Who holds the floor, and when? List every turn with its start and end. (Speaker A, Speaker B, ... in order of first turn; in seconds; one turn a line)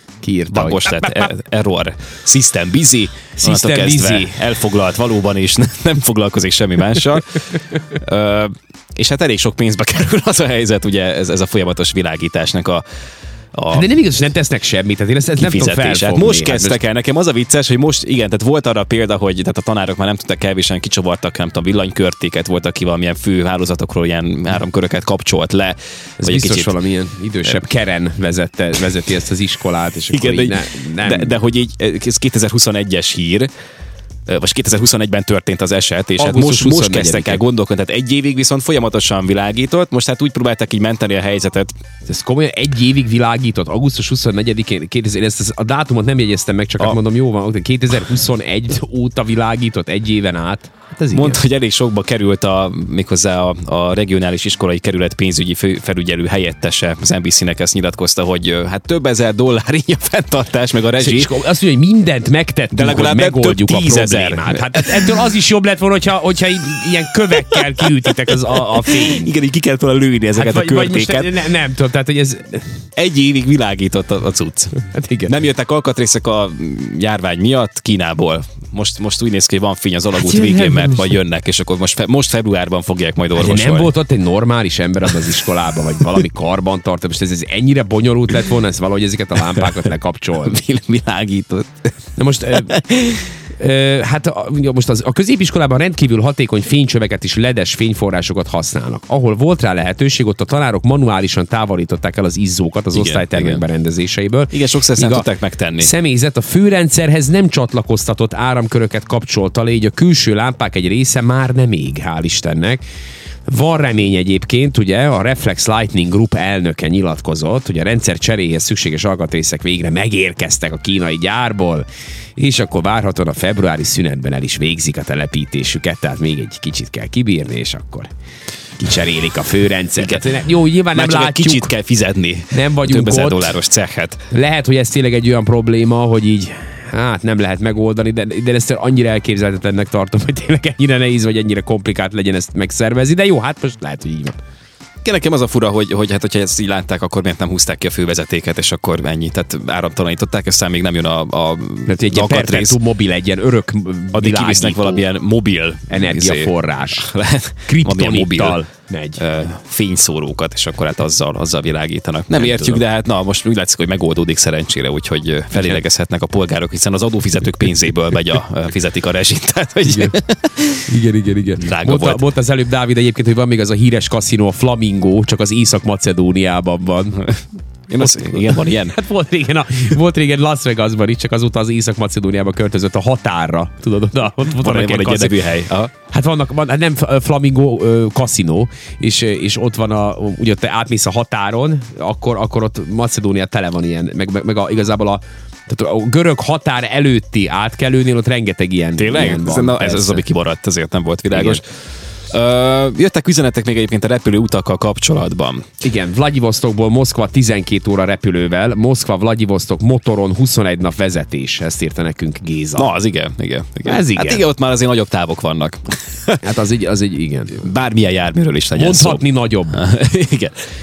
Speaker A: 0.2-1.3
Speaker B: 0.5-12.8
Speaker A: 3.4-4.5
Speaker B: 13.5-13.9
Speaker A: 13.7-16.8
Speaker B: 15.4-26.7
Speaker A: 26.2-31.4
Speaker B: 30.1-33.5
Speaker B: 34.3-41.7
Speaker A: 36.2-37.4
Speaker A: 42.0-51.4
Speaker B: 51.1-61.3
Speaker A: 61.0-69.3
Speaker B: 62.7-65.1
Speaker B: 68.8-71.4
Speaker A: 70.3-72.6
Speaker B: 73.0-83.9
Speaker A: 74.8-75.3
Speaker A: 80.2-81.2
Speaker A: 83.4-90.6
Speaker B: 90.4-91.9
Speaker A: 92.2-105.3
Speaker B: 92.6-93.2
Speaker B: 102.9-103.6
Speaker B: 104.5-105.9
Speaker A: 105.8-112.8
Speaker A: 113.5-128.1
Speaker A: 128.8-131.7
Speaker B: 130.0-134.2
Speaker A: 132.5-133.6
Speaker A: 134.3-144.4
Speaker B: 145.0-152.8
Speaker A: 151.9-155.0
Speaker B: 154.1-158.7
Speaker A: 155.9-157.1
Speaker A: 157.7-159.2
Speaker B: 159.2-170.8
Speaker A: 162.3-162.8
Speaker A: 169.9-170.2
Speaker A: 170.8-177.3
Speaker B: 171.6-172.2
Speaker B: 177.9-179.0
Speaker A: 178.0-185.4
Speaker B: 184.4-185.9
Speaker A: 186.0-200.2
Speaker B: 199.0-201.6
Speaker A: 201.3-201.6
Speaker B: 202.3-205.7
Speaker A: 205.8-212.9
Speaker B: 212.8-216.4
Speaker A: 213.8-214.4
Speaker A: 216.4-217.6
Speaker B: 217.6-220.6
Speaker A: 218.8-219.8